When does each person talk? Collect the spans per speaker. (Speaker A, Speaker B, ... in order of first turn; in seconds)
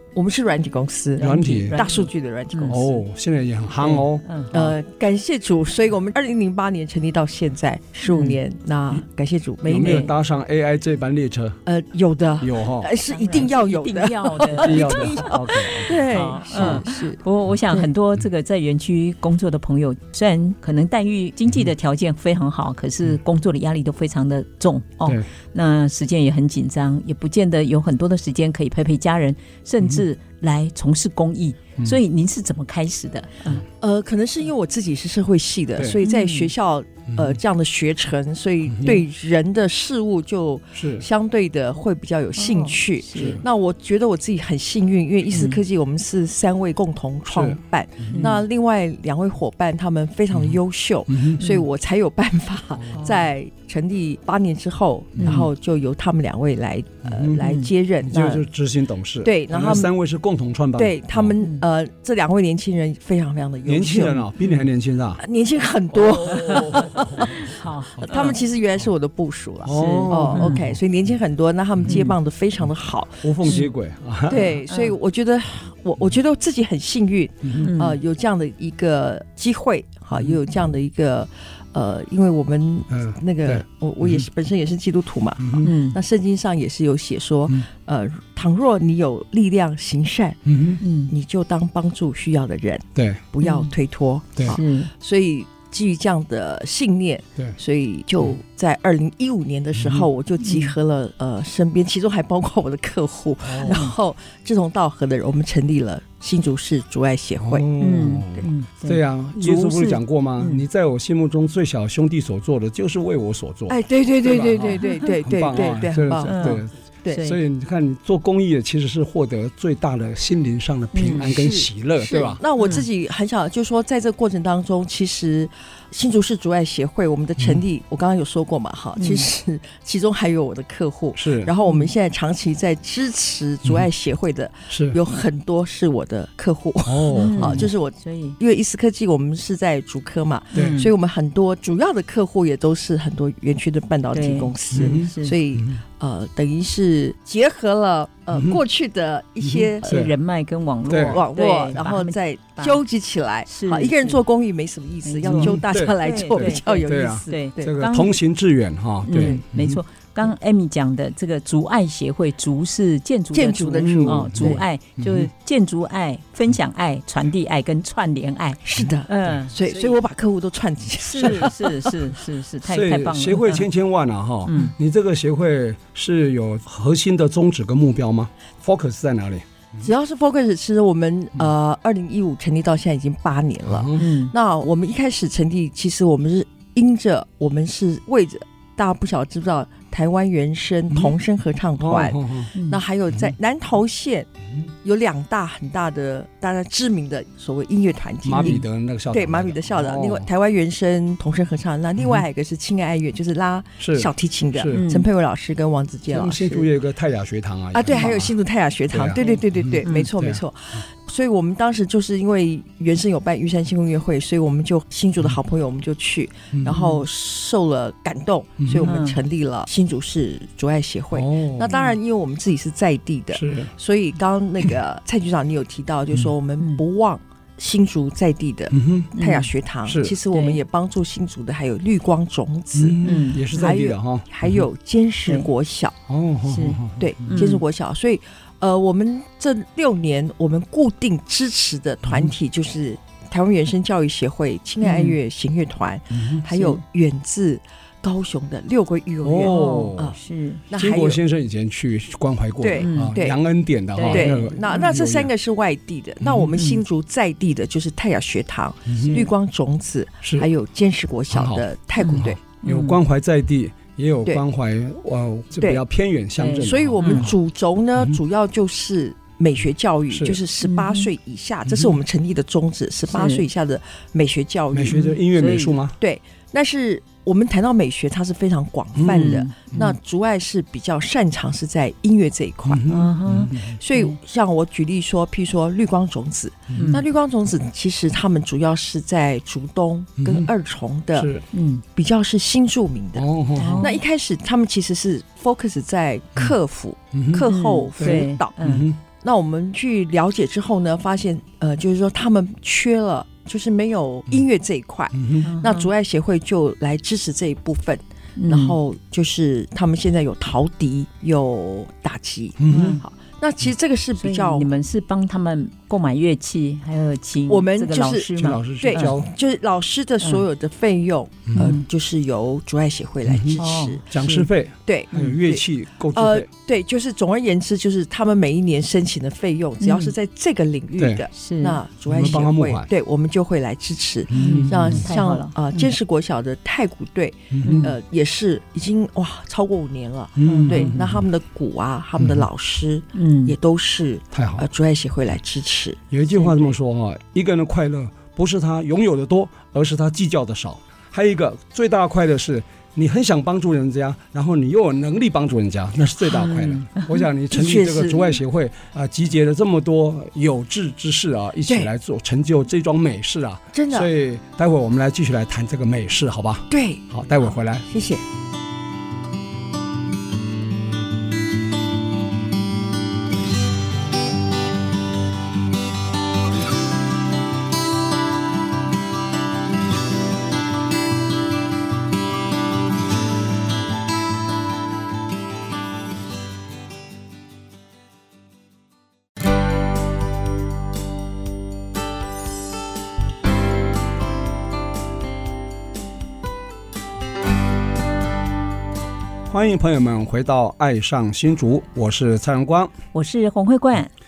Speaker A: 0.1-2.9, 4.5-10.1, 11.7-17.2, 33.8-58.4, 59.2-59.9, 60.8-64.2, 65.2-73.6, 74.3-90.4, 91.1-107.7, 113.7-117.2, 121.1-149.8, 151.0-157.7, 163.3-164.6, 168.6-171.6, 179.8-194.3, 194.8-206.7, 207.7-233.0, 233.5-235.9, 237.0-250.2, 250.7-251.2, 252.6-253.4, 254.0-262.4, 266.6-275.0, 276.0-282.9, 283.7-291.3, 291.9-314.7, 317.5-324.1, 324.9-346.0, 357.5-358.4, 363.7-364.1, 366.7-367.0, 367.9-368.2
Speaker B: 1.2-1.8, 2.6-4.7, 9.6-11.6, 12.4-12.9, 14.6-16.8, 37.1-37.4, 38.6-39.0, 40.7-41.0, 43.1-43.4, 47.3-48.3, 50.3-50.6, 51.1-51.4, 55.1-55.5, 57.0-57.5, 58.0-61.4, 63.6-65.2, 65.9-67.3, 69.6-70.8, 71.8-72.1, 73.2-74.5, 77.4-77.7, 80.1-80.4, 82.9-84.3, 85.4-85.7, 90.5-90.8, 92.9-93.2, 99.7-100.1, 103.4-103.8, 107.4-122.4, 131.1-131.5, 134.7-135.0, 136.8-137.7, 140.5-140.8, 144.7-145.8, 148.3-148.6, 149.4-150.1, 150.9-151.2, 155.2-159.8, 163.8-165.3, 171.2-171.5, 172.6-179.4, 183.7-184.0, 190.9-191.2, 191.8-192.5, 198.2-200.3, 202.0-202.2, 203.8-204.9, 206.1-208.3, 208.9-210.4, 216.5-216.8, 218.6-219.0, 221.1-221.7, 223.3-223.7, 228.7-229.1, 229.8-230.2, 232.7-234.7, 236.1-237.4, 242.0-242.3, 246.1-246.5, 249.2-250.2, 250.8-255.3, 256.2-256.6, 258.9-259.2, 261.3-267.4, 270.1-270.4, 271.6-272.0, 274.7-275.9, 278.9-279.9, 282.6-283.8, 286.7-286.9, 290.2-290.5, 291.1-291.4, 293.1-293.9, 297.1-297.5, 298.0-299.0, 305.1-305.5, 312.6-313.0, 318.4-319.3, 321.5-321.7, 323.2-326.5, 331.0-331.3, 332.1-332.9, 334.3-335.1, 337.5-337.9, 340.4-341.2, 342.2-342.5, 344.3-344.7, 346.1-367.9, 399.5-402.9
Speaker C: 1.2-2.9, 3.8-4.5, 8.0-8.4, 9.7-10.1, 13.1-33.6, 36.0-36.5, 42.4-43.4, 45.3-45.6, 48.1-48.4, 51.4-51.6, 52.9-53.3, 55.2-55.5, 57.4-57.7, 66.3-68.4, 69.7-70.6, 71.9-72.1, 74.3-74.9, 77.6-78.0, 85.6-86.0, 90.8-91.1, 93.4-93.7, 94.5-94.9, 100.4-100.7, 103.6-103.9, 107.8-110.6, 116.2-117.4, 120.9-121.2, 122.6-122.9, 129.0-129.3, 131.6-131.9, 137.1-138.4, 140.5-140.9, 144.1-145.4, 149.8-152.8, 153.5-154.2, 155.0-158.2, 159.0-170.0, 171.0-173.7, 174.4-174.7, 184.0-184.3, 192.5-192.8, 198.4-198.6, 204.7-205.1, 209.2-210.1, 216.7-217.0, 218.8-219.2, 229.1-229.5, 230.3-230.6, 233.0-233.4, 236.5-237.6, 244.8-245.2, 246.5-246.8, 249.4-250.6, 252.8-253.1, 253.9-254.9, 256.6-256.8, 259.0-259.3, 262.0-263.0, 266.4-267.3, 270.6-271.1, 273.1-273.4, 274.9-275.8, 279.1-279.9, 282.9-284.2, 286.7-287.0, 291.5-291.8, 293.6-294.0, 297.5-298.9, 305.4-305.9, 308.4-308.8, 312.7-313.0, 314.2-319.1, 321.6-321.8, 323.6-324.5, 329.8-330.1, 331.3-331.8, 334.4-335.9, 337.6-337.9, 340.4-340.9, 343.1-343.6, 346.3-346.7, 356.2-357.2, 403.1-404.1